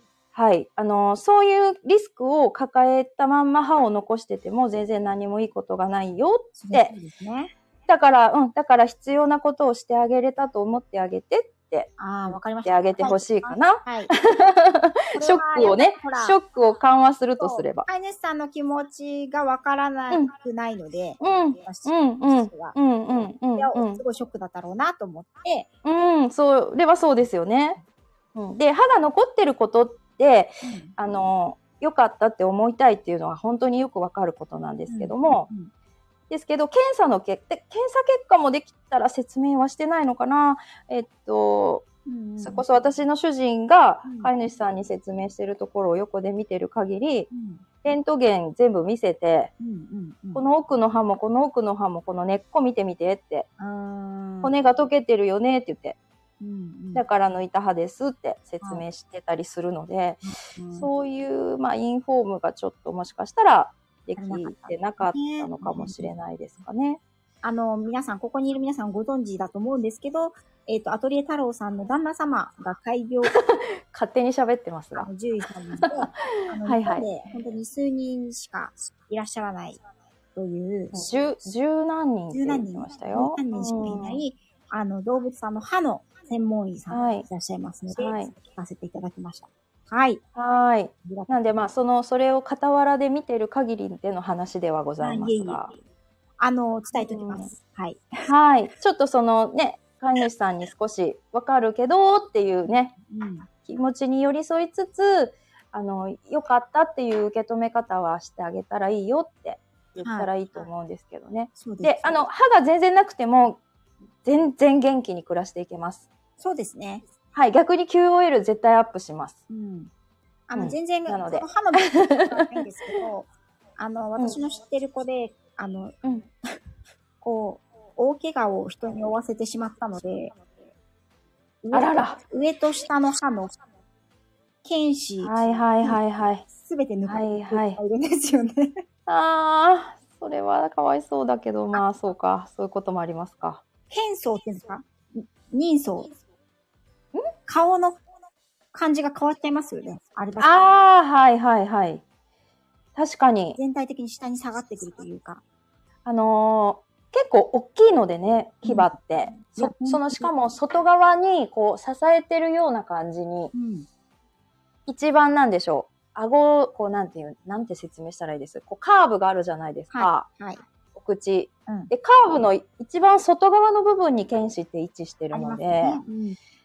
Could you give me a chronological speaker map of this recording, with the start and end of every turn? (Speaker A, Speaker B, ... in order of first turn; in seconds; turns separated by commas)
Speaker A: 0.3-6.9, Speaker B: 6.6-7.5, Speaker A: 7.9-11.9, Speaker B: 12.0-14.1, Speaker A: 12.6-17.9, Speaker B: 15.1-16.4, Speaker B: 17.4-22.8, Speaker A: 21.2-24.0, Speaker B: 23.5-25.7, Speaker A: 25.8-27.8, Speaker A: 28.3-35.5, Speaker B: 30.6-30.9, Speaker B: 34.9-35.7, Speaker A: 36.3-41.9, Speaker B: 42.0-42.6, Speaker A: 42.4-47.3, Speaker B: 44.0-44.3, Speaker B: 47.3-47.6, Speaker A: 47.8-49.5, Speaker B: 49.6-50.4, Speaker A: 50.3-53.5, Speaker B: 53.6-54.5, Speaker A: 54.4-56.0, Speaker B: 56.4-57.0, Speaker A: 56.9-60.2, Speaker B: 60.2-60.9, Speaker A: 60.7-67.0, Speaker B: 64.2-66.1, Speaker B: 67.4-73.3, Speaker A: 73.2-75.1, Speaker B: 75.0-79.8, Speaker A: 75.8-77.1, Speaker B: 80.3-81.3, Speaker A: 80.9-84.2, Speaker B: 82.3-90.2, Speaker A: 86.9-87.2, Speaker A: 87.9-88.3, Speaker A: 90.3-95.7, Speaker B: 91.0-91.3, Speaker B: 95.0-95.8, Speaker B: 96.4-98.3, Speaker A: 96.9-97.5, Speaker A: 98.3-102.9, Speaker B: 102.7-103.5, Speaker A: 103.6-113.6, Speaker B: 110.0-110.6, Speaker B: 111.6-112.2, Speaker A: 114.2-116.1, Speaker B: 116.4-117.0, Speaker A: 117.3-119.4, Speaker B: 119.5-119.9, Speaker B: 120.5-126.0, Speaker A: 120.5-123.0, Speaker B: 127.2-130.4, Speaker B: 131.6-133.5, Speaker A: 131.7-132.2, Speaker B: 134.6-138.8, Speaker A: 135.2-136.4, Speaker A: 137.1-137.8, Speaker A: 139.1-143.6, Speaker B: 143.9-146.1, Speaker B: 147.5-148.0, Speaker B: 148.7-150.6, Speaker A: 150.4-152.0, Speaker A: 152.9-153.6, Speaker B: 153.6-155.4, Speaker A: 156.0-163.5, Speaker B: 158.6-160.3, Speaker B: 163.5-163.9, Speaker A: 164.9-170.3, Speaker B: 169.9-170.6, Speaker A: 170.9-176.0, Speaker B: 175.3-176.4